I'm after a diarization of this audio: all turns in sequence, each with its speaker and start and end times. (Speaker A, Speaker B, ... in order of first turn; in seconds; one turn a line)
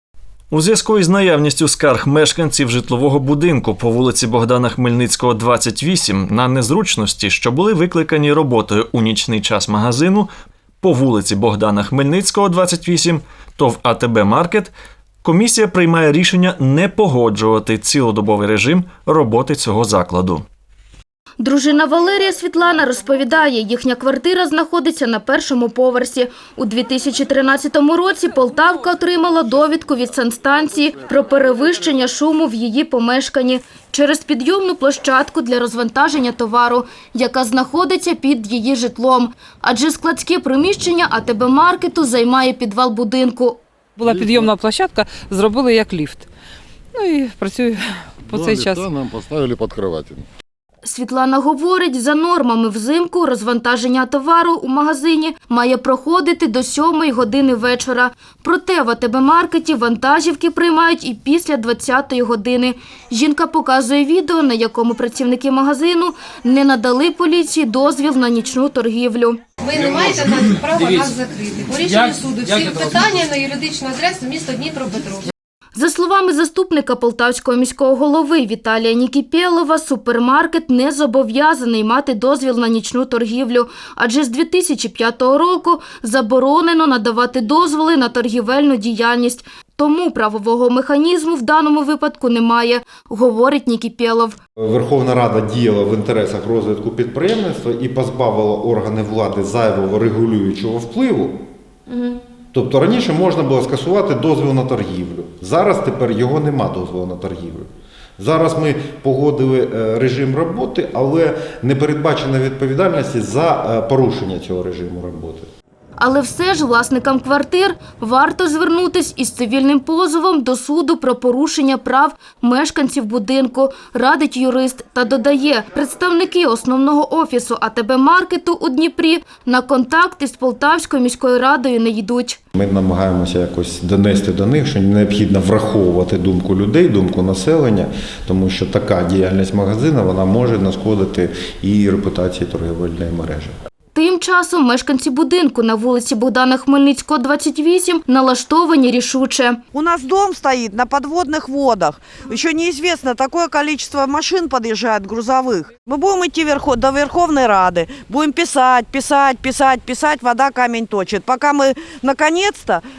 Speaker A: 0.5-10.3
Speaker A: 10.8-14.7
Speaker A: 15.2-20.4
Speaker B: 21.4-43.6
Speaker C: 44.0-46.3
Speaker D: 44.0-44.5
Speaker C: 46.9-48.8
Speaker D: 48.2-50.3
Speaker B: 50.8-69.5
Speaker E: 69.6-75.3
Speaker B: 75.8-94.4
Speaker F: 94.6-101.4
Speaker F: 102.5-107.7
Speaker F: 108.2-115.5
Speaker B: 116.0-132.4
Speaker F: 132.5-143.5
Speaker B: 143.9-149.6
Speaker G: 149.7-162.8